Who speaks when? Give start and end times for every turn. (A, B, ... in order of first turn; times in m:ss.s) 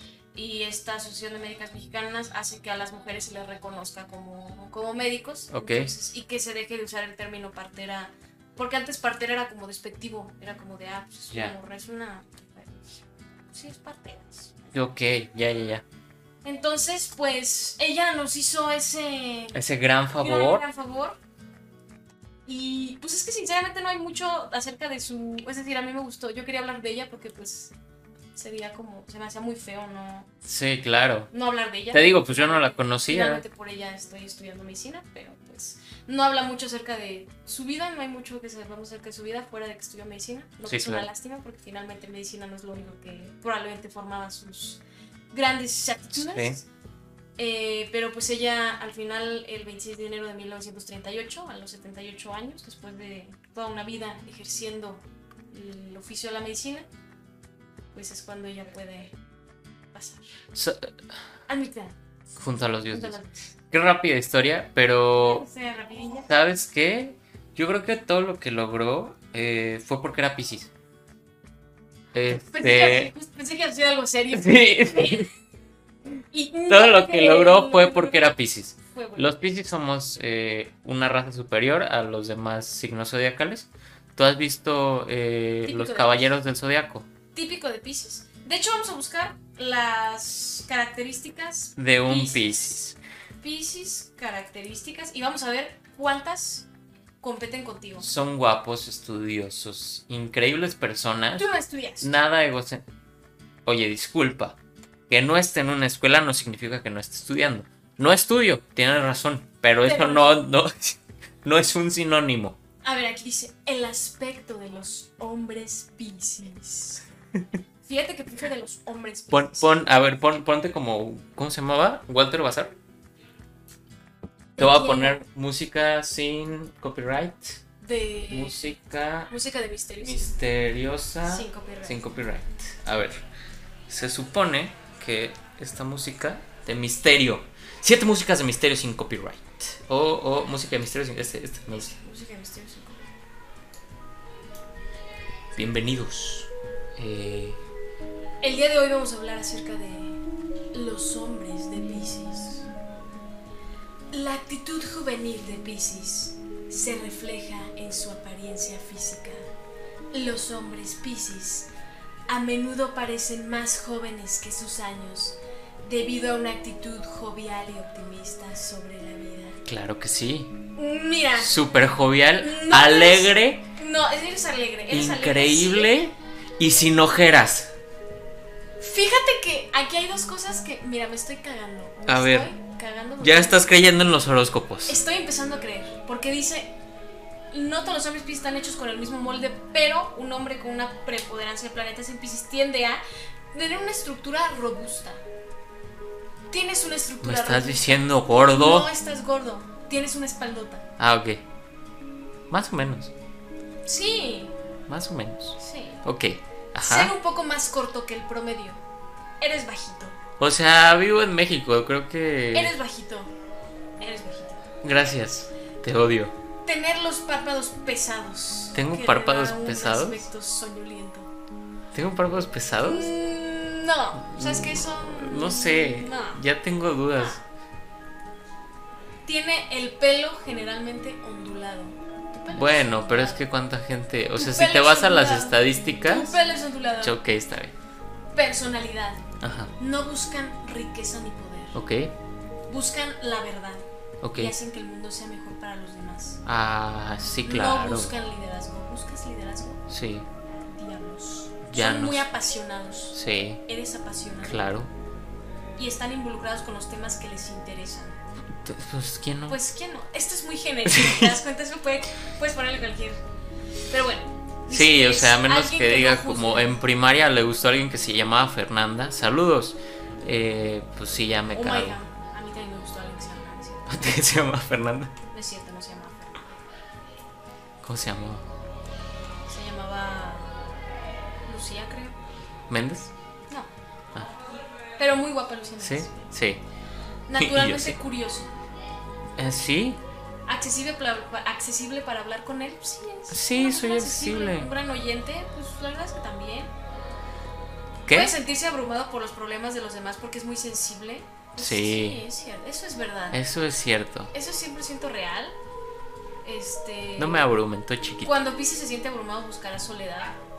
0:00.3-0:14.5 A
0:05.5-0:05.9 B
0:14.7-0:15.8 B
0:16.4-0:19.6 A
0:19.5-0:20.6 B
0:20.2-0:21.2 A
0:22.4-0:27.7 A
0:28.4-0:30.3 A
0:30.4-0:31.3 B
0:31.3-0:46.6 A
0:31.9-0:33.4 B
0:40.6-0:41.1 B
0:46.1-0:46.6 B
0:47.4-0:56.9 A
0:57.9-0:59.2 A
0:59.9-1:00.2 A
1:00.5-1:00.9 B
1:01.5-1:01.9 A
1:02.4-1:03.2 B
1:02.9-1:03.5 A
1:03.7-1:05.4 B
1:05.2-1:06.3 A
1:06.3-1:10.7 B
1:12.1-1:13.1 B
1:12.3-1:15.3 A
1:14.3-1:15.3 B
1:16.3-1:18.3 A
1:16.7-1:27.1 B
1:18.9-1:19.3 A
1:25.6-1:26.3 A
1:27.3-1:32.8 A
1:31.8-1:33.0 B
1:33.4-1:36.7 A
1:37.2-1:38.1 A
1:38.0-1:42.8 B
1:41.4-1:42.1 A
1:43.6-1:44.6 B
1:45.1-1:52.6 B
1:49.8-1:50.4 A
1:52.8-1:57.0 A
1:57.8-1:59.8 A
1:59.3-2:02.8 B
2:04.6-2:05.2 A
2:04.6-2:07.6 B
2:07.8-2:08.6 A
2:08.3-2:09.3 B
2:09.3-2:10.3 A
2:10.0-2:13.2 B
2:11.2-2:12.1 A
2:13.9-2:22.0 B
2:21.7-2:23.1 A
2:25.5-2:27.6 B
2:28.4-2:30.2 A
2:30.7-2:32.7 A
2:34.1-2:39.5 A
2:40.1-2:41.7 A
2:42.3-2:49.6 A
2:49.6-2:50.5 B
2:50.8-2:51.6 A
2:51.4-2:53.6 B
2:52.4-2:56.1 A
2:54.9-2:57.7 B
2:58.8-3:03.8 A
3:02.1-3:02.5 B
3:03.2-3:05.0 B
3:04.8-3:06.7 A
3:07.5-3:13.0 A
3:13.5-3:15.2 A
3:16.5-3:20.8 A
3:17.2-3:18.9 B
3:21.0-3:21.4 B
3:22.5-3:23.1 B
3:23.8-3:24.5 A
3:24.9-3:27.1 B
3:25.6-3:26.0 A
3:26.8-3:28.8 A
3:29.4-3:30.2 A
3:30.4-3:32.7 B
3:32.5-3:33.3 A
3:34.0-3:34.7 A
3:34.8-3:36.3 B
3:36.6-3:41.3 A
3:38.7-3:40.3 B
3:41.9-3:43.1 B
3:42.8-3:46.4 A
3:44.2-3:47.4 B
3:47.1-3:47.4 A
3:49.2-3:53.4 A
3:52.5-3:56.4 B
3:54.3-3:57.2 A
3:57.0-3:57.7 B
3:58.3-4:01.8 A
3:59.4-3:59.7 B
4:01.7-4:02.1 B
4:02.7-4:06.4 A
4:04.2-4:04.5 B
4:06.4-4:08.1 B
4:07.4-4:09.8 A
4:09.9-4:10.2 B
4:10.5-4:14.7 A
4:11.7-4:12.3 B
4:13.1-4:13.6 B
4:14.4-4:14.9 B
4:15.8-4:18.2 A
4:18.5-4:19.6 B
4:19.5-4:23.2 A
4:20.8-4:21.4 B
4:23.9-4:26.8 A
4:24.7-4:32.0 B
4:31.5-4:34.1 A
4:33.9-4:35.1 B
4:35.3-4:36.6 A
4:37.8-4:38.4 B
4:39.5-4:40.7 A
4:41.4-4:42.2 A
4:42.7-4:43.1 B
4:45.0-4:46.2 A
4:45.8-4:46.6 B
4:47.3-4:48.5 A
4:47.4-4:48.0 B
4:49.4-4:50.0 B
4:50.5-4:56.7 A
4:53.3-4:54.7 B
4:58.0-4:58.3 B
4:58.1-5:03.4 A
5:01.6-5:02.2 B
5:03.3-5:04.3 B
5:04.3-5:05.6 A
5:06.4-5:07.4 A
5:07.2-5:08.4 B
5:08.2-5:10.4 A